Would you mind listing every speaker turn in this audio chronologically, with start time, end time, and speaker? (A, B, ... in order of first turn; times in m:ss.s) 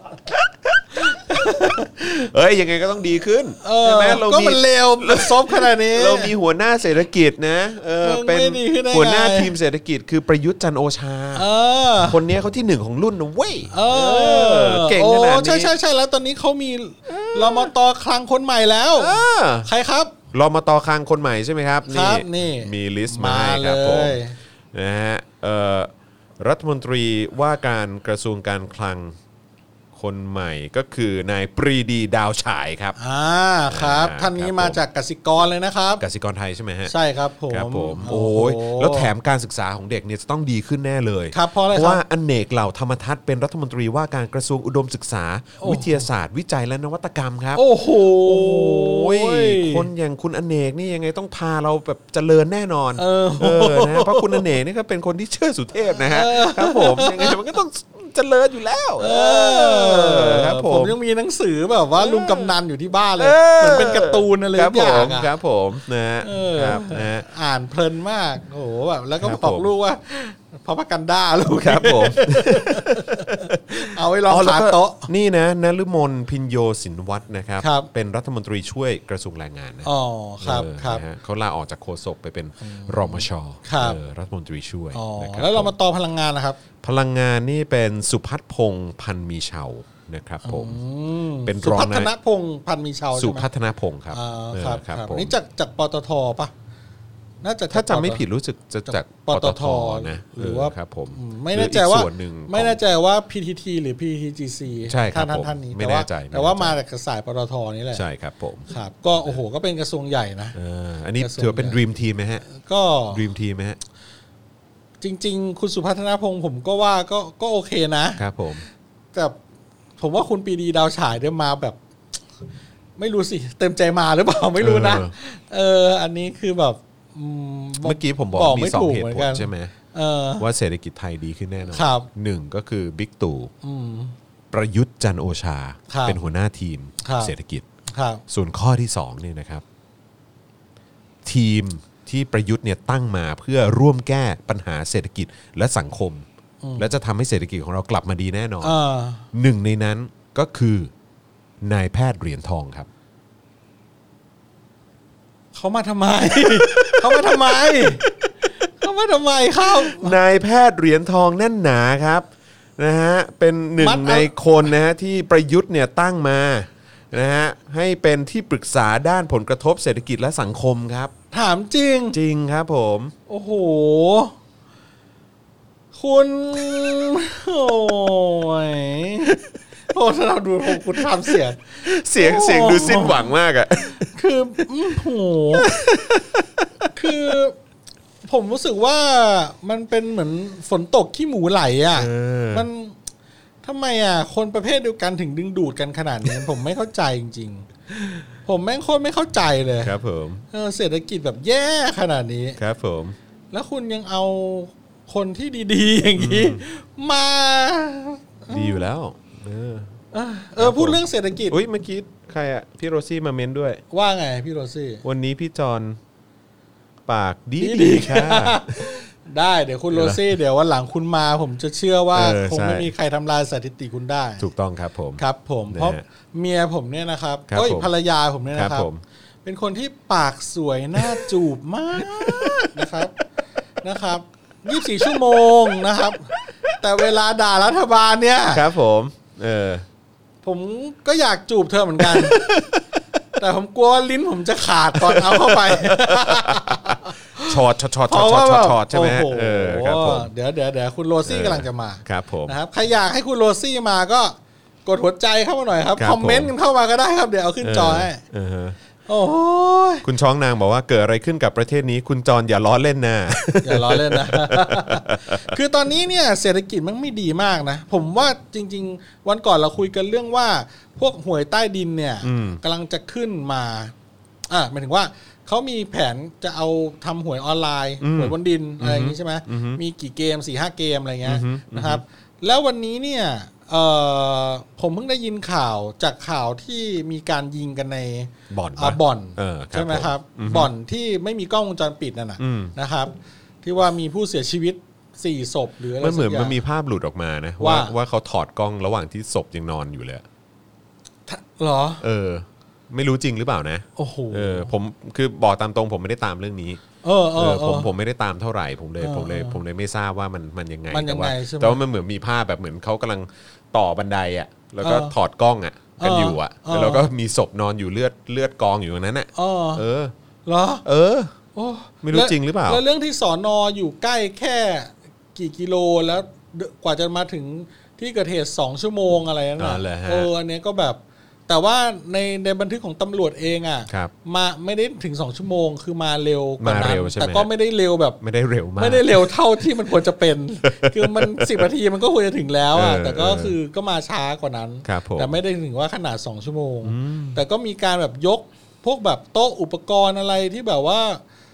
0:00.2-0:11.4 A
0:01.1-0:01.9 B
0:03.6-0:06.3 B
0:08.0-0:09.5 B
0:11.3-0:12.2 B
0:12.0-0:15.7 A
0:13.7-0:20.1 B
0:17.1-0:17.7 A
0:19.0-0:19.7 A
0:20.3-0:24.2 A
0:21.9-0:24.4 B
0:24.7-0:29.2 A
0:29.9-0:33.0 A
0:33.0-0:36.0 B
0:33.7-0:34.8 A
0:36.0-0:36.9 A
0:36.9-0:39.1 B
0:37.5-1:00.9 A
0:41.3-0:42.0 B
0:45.6-0:46.1 B
0:47.5-0:49.9 B
0:53.0-0:54.5 B
0:56.1-0:57.4 B
0:59.0-1:05.3 B
1:02.0-1:02.5 A
1:03.2-1:07.3 A
1:06.2-1:15.1 B
1:09.2-1:09.7 A
1:11.6-1:19.9 A
1:17.6-1:17.9 B
1:19.8-1:21.0 B
1:20.4-1:25.7 A
1:22.6-1:24.0 B
1:24.9-1:26.6 B
1:26.8-1:30.8 A
1:30.4-1:33.5 B
1:31.4-1:32.1 A
1:33.1-1:35.3 A
1:34.1-1:36.5 B
1:37.4-1:38.2 B
1:37.7-1:42.8 A
1:38.9-1:48.0 B
1:44.9-1:46.8 A
1:47.9-1:48.7 A
1:48.7-1:50.6 B
1:50.5-1:52.4 A
1:51.2-1:51.8 B
1:52.4-1:53.2 B
1:53.1-1:53.8 A
1:55.0-1:58.2 B
1:58.2-1:58.6 A
2:00.0-2:01.8 B
2:03.0-2:10.4 B
2:04.6-2:05.1 A
2:07.8-2:09.7 A
2:10.4-2:13.5 A
2:11.7-2:12.1 B
2:13.6-2:14.1 B
2:14.5-2:17.6 A
2:15.9-2:16.2 B
2:17.0-2:17.3 B
2:17.9-2:18.2 B
2:18.3-2:19.6 A
2:21.2-2:26.2 A
2:26.6-2:26.9 B
2:26.8-2:28.7 A
2:28.6-2:29.2 B
2:29.3-2:30.9 A
2:31.6-2:32.9 A
2:35.5-2:38.0 B
2:36.3-2:38.1 A
2:38.8-2:40.2 B
2:39.7-2:42.3 A
2:42.8-2:51.1 A
2:43.8-2:44.3 B
2:51.3-2:52.2 B
2:52.1-2:53.1 A
2:53.3-2:54.4 B
2:55.9-3:05.7 B
3:00.7-3:04.1 A
3:05.5-3:07.3 A
3:06.9-3:07.6 B
3:08.2-3:13.0 B
3:11.9-3:12.7 A
3:13.6-3:19.9 B
3:19.8-3:20.4 A
3:20.5-3:22.6 B
3:22.6-3:23.2 A
3:23.5-3:28.8 B
3:26.2-3:26.6 A
3:28.5-3:30.0 A
3:30.1-3:31.6 B
3:30.6-3:33.8 A
3:33.9-3:35.0 B
3:35.0-3:36.0 A
3:37.1-3:39.0 A
3:37.6-3:44.5 B
3:39.9-3:40.4 A
3:42.1-3:42.9 A
3:44.4-3:46.0 A
3:45.2-3:48.9 B
3:47.5-3:47.9 A
3:48.5-3:49.0 A
3:49.4-3:53.2 B
3:51.0-3:51.3 A
3:51.9-3:52.8 A
3:53.8-3:58.7 B
3:58.5-3:59.8 A
4:00.4-4:02.5 B
4:02.0-4:02.8 A
4:03.4-4:18.2 B
4:05.0-4:10.3 A
4:11.2-4:12.5 A
4:16.0-4:16.5 A
4:17.6-4:18.8 A
4:19.1-4:20.0 B
4:20.0-4:25.5 A
4:23.6-4:33.9 B
4:32.2-4:32.6 A
4:34.5-4:56.6 B
4:38.0-4:39.8 A
4:41.2-4:42.0 A
4:48.5-4:50.7 A
4:52.4-4:52.7 A
4:56.0-5:00.2 A
4:57.6-4:57.9 B
5:01.3-5:02.0 B
5:02.0-5:06.8 A
5:04.0-5:04.7 B
5:07.0-5:07.9 B
5:07.4-5:20.1 A
5:09.0-5:09.6 B
5:10.9-5:11.8 B
5:14.8-5:15.1 B
5:16.0-5:17.1 B
5:19.3-5:19.8 B
5:20.4-5:20.8 B
5:20.8-5:21.4 A
5:21.5-5:38.2 B
5:22.0-5:22.8 A
5:29.6-5:30.3 A
5:36.6-5:37.5 A
5:38.2-5:39.9 A
5:38.8-5:51.2 B
5:40.6-5:41.7 A
5:42.7-5:43.6 A
5:44.8-5:45.4 A
5:46.8-5:47.4 A